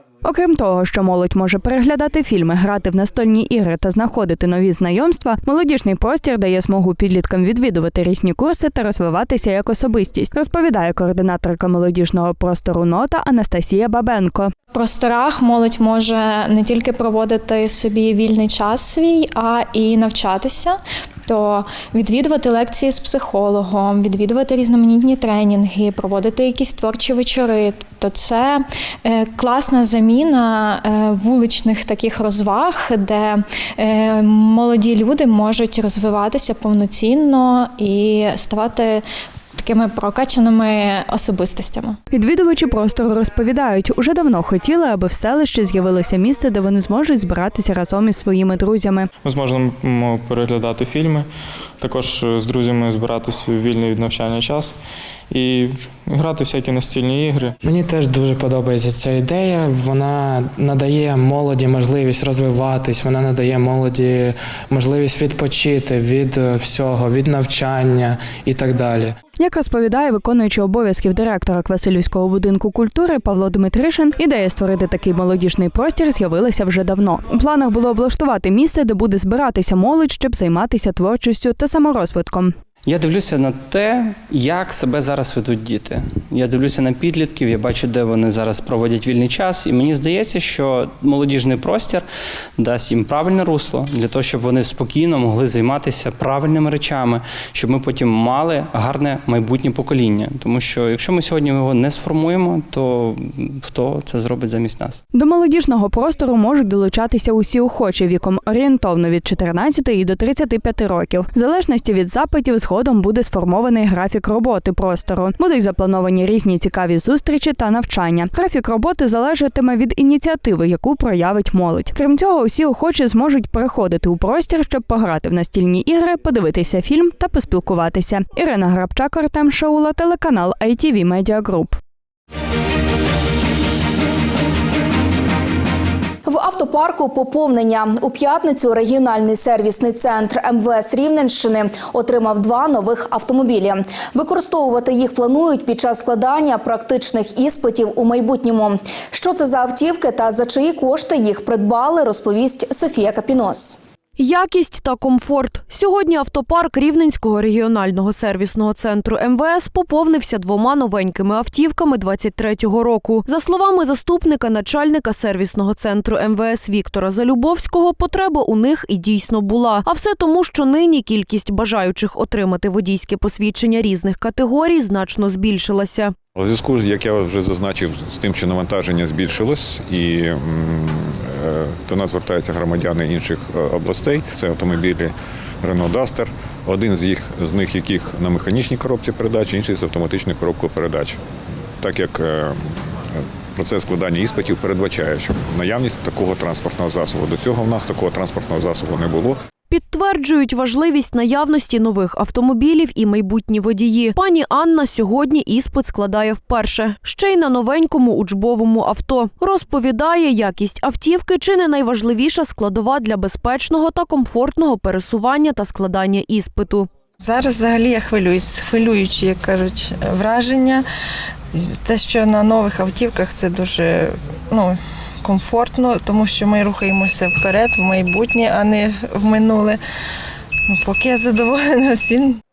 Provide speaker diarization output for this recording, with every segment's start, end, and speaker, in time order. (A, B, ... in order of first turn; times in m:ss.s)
0:00.2-0:14.5 A
0:14.7-0:39.0 B
0:39.6-0:42.0 B
0:42.1-0:49.1 A
0:49.2-0:51.3 C
0:51.8-0:54.7 C
0:55.3-0:57.5 C
0:57.6-1:09.2 D
1:09.4-1:22.5 A
1:22.9-1:32.0 E
1:32.6-1:36.9 E
1:37.6-1:37.9 E
1:38.6-1:43.1 E
1:43.7-1:44.9 E
1:45.1-2:11.8 A
2:16.2-2:33.8 F
2:34.2-2:56.1 G
2:56.4-3:11.2 H
3:11.8-3:12.6 H
3:13.2-3:19.4 H
3:19.7-3:36.9 G
3:37.2-3:40.8 I
3:41.5-3:49.8 I
3:50.7-3:52.4 I